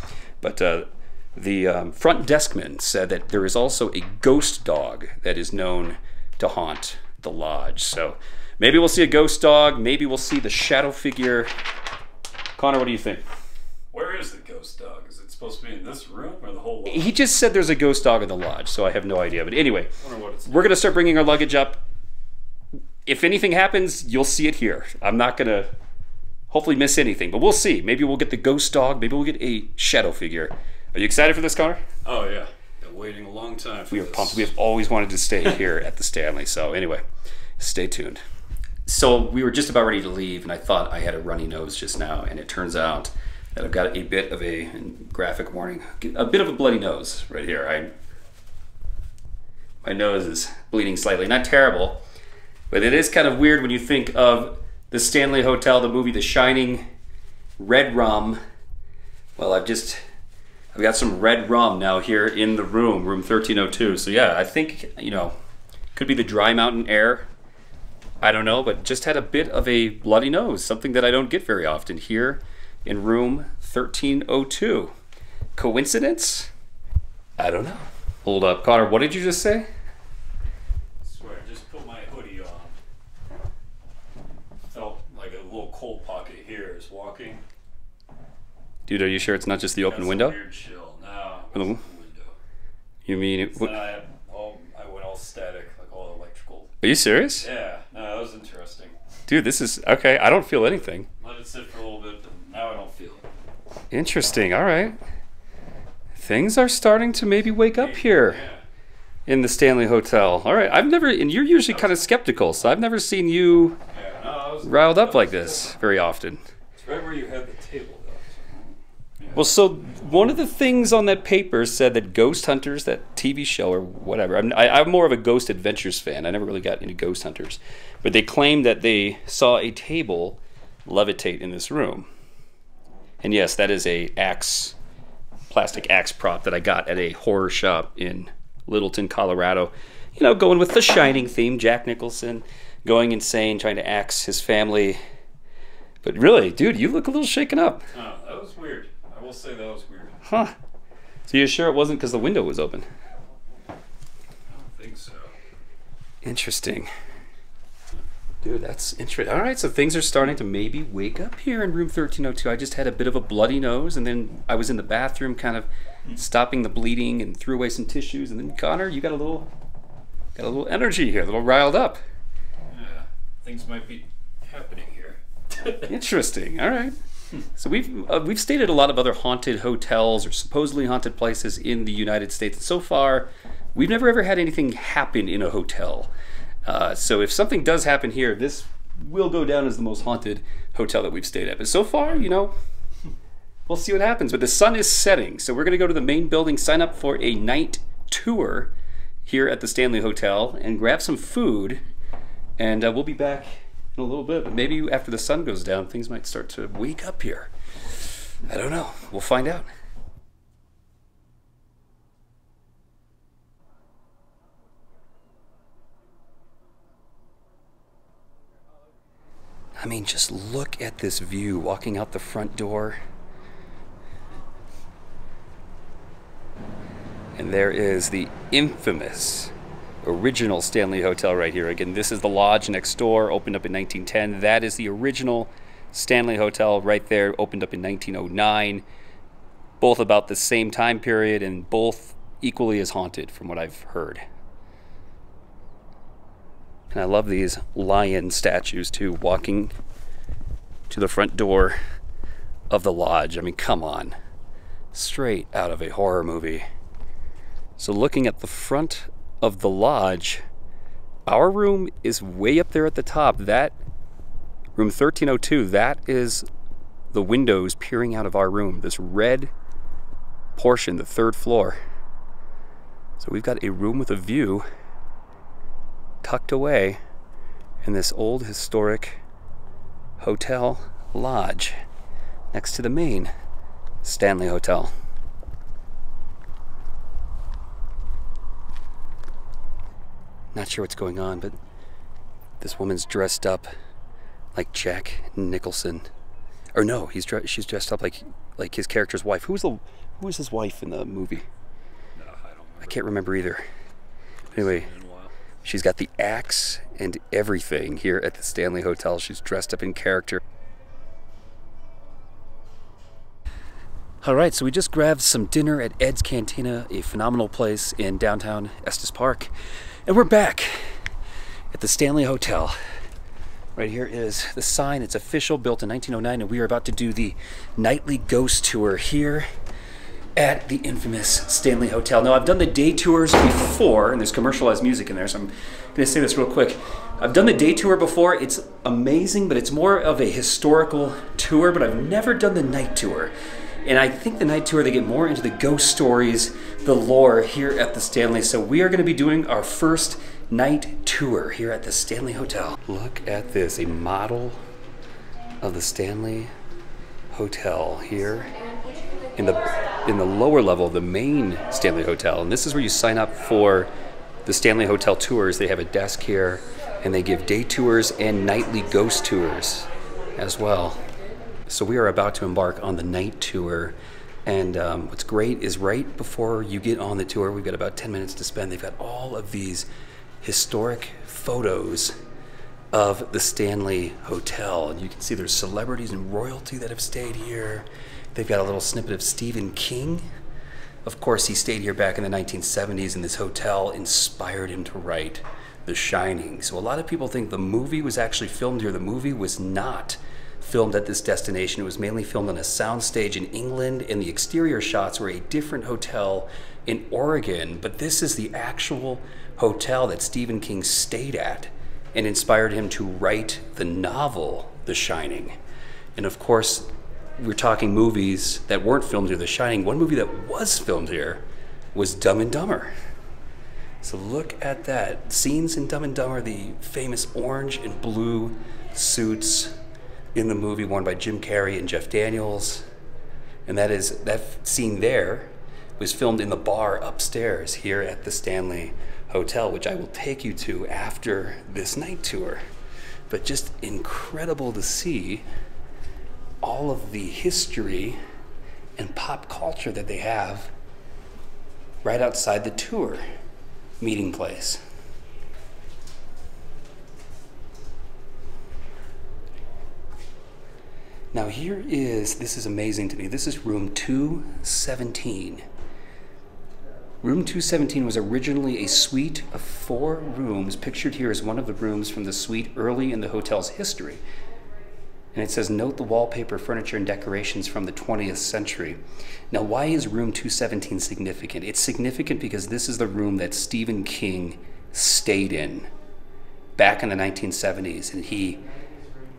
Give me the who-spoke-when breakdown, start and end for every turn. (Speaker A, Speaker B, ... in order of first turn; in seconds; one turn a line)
Speaker A: 0.4-11.5
Speaker A: 12.6-13.2
Speaker B: 13.9-17.1
Speaker A: 16.9-19.9
Speaker B: 20.0-20.8
Speaker A: 20.5-21.8
Speaker A: 23.1-25.7
Speaker A: 26.5-31.8
Speaker B: 32.0-34.5
Speaker A: 33.9-37.0
Speaker A: 37.6-38.2
Speaker A: 38.9-47.9
Speaker A: 49.8-52.0
Speaker A: 52.7-56.9
Speaker A: 57.6-58.4
Speaker A: 59.4-60.0
Speaker A: 60.7-65.3
Speaker A: 65.9-67.3
Speaker A: 68.2-74.9
Speaker A: 75.5-76.5
Speaker A: 77.4-79.7
Speaker B: 81.0-82.7
Speaker B: 84.7-87.4
Speaker A: 88.9-90.4
Speaker B: 89.8-92.3
Speaker A: 91.5-91.8
Speaker A: 93.0-93.8
Speaker B: 93.5-96.7
Speaker A: 96.8-97.5
Speaker B: 97.4-99.0
Speaker A: 99.3-101.1
Speaker B: 101.2-103.3
Speaker A: 103.9-105.0
Speaker A: 106.2-108.4
Speaker B: 107.7-108.6
Speaker A: 109.3-113.8
Speaker B: 113.9-115.7
Speaker A: 114.6-116.4
Speaker B: 116.8-118.6
Speaker B: 119.2-119.4
Speaker A: 119.3-132.1
Speaker A: 133.2-134.8
Speaker A: 135.5-145.0
Speaker A: 146.0-147.8
Speaker B: 147.9-150.2
Speaker A: 150.2-150.5
Speaker A: 151.3-152.8
Speaker B: 154.5-155.3
Speaker A: 156.2-156.9
Speaker A: 158.4-169.5
Speaker A: 170.3-172.0
Speaker B: 172.7-175.9
Speaker A: 175.8-176.9
Speaker A: 177.5-186.1
Speaker A: 186.6-192.5
Speaker A: 193.7-198.7
Speaker A: 199.2-201.8
Speaker A: 202.6-207.5
Speaker A: 208.4-209.7
Speaker A: 219.8-223.0
Speaker A: 227.3-229.5
Speaker A: 230.0-238.8
Speaker A: 239.8-244.2
Speaker A: 246.9-249.7
Speaker A: 250.9-251.8
Speaker A: 252.7-254.2
Speaker A: 254.9-256.6
Speaker A: 257.8-260.4
Speaker A: 261.2-263.8
Speaker A: 264.8-266.4
Speaker A: 267.1-269.5
Speaker A: 270.6-271.8
Speaker A: 273.2-274.6
Speaker A: 276.2-277.0
Speaker A: 277.8-279.2
Speaker A: 280.2-281.7
Speaker A: 282.5-283.3
Speaker A: 284.0-284.9
Speaker A: 290.5-291.6
Speaker A: 292.6-293.7
Speaker A: 294.5-296.1
Speaker A: 296.7-301.4
Speaker B: 302.1-303.0
Speaker A: 302.8-303.6
Speaker B: 304.4-305.3
Speaker A: 304.5-304.9
Speaker A: 305.6-310.4
Speaker A: 314.2-319.5
Speaker A: 320.1-320.9
Speaker A: 321.7-322.8
Speaker A: 323.8-329.5
Speaker A: 330.4-343.3
Speaker A: 343.8-354.6
Speaker A: 355.6-356.5
Speaker A: 357.3-358.5
Speaker A: 359.4-363.9
Speaker A: 364.4-371.0
Speaker A: 371.7-379.9
Speaker A: 380.4-382.1
Speaker A: 382.9-390.2
Speaker A: 391.0-415.5
Speaker A: 416.1-422.9
Speaker A: 424.0-429.7
Speaker A: 430.3-432.8
Speaker A: 433.6-442.6
Speaker A: 443.3-445.4
Speaker A: 446.6-448.2
Speaker A: 449.0-450.7
Speaker A: 452.0-453.2
Speaker A: 454.0-454.8
Speaker A: 461.3-465.6
Speaker A: 467.2-474.2
Speaker A: 475.3-485.9
Speaker A: 486.8-488.6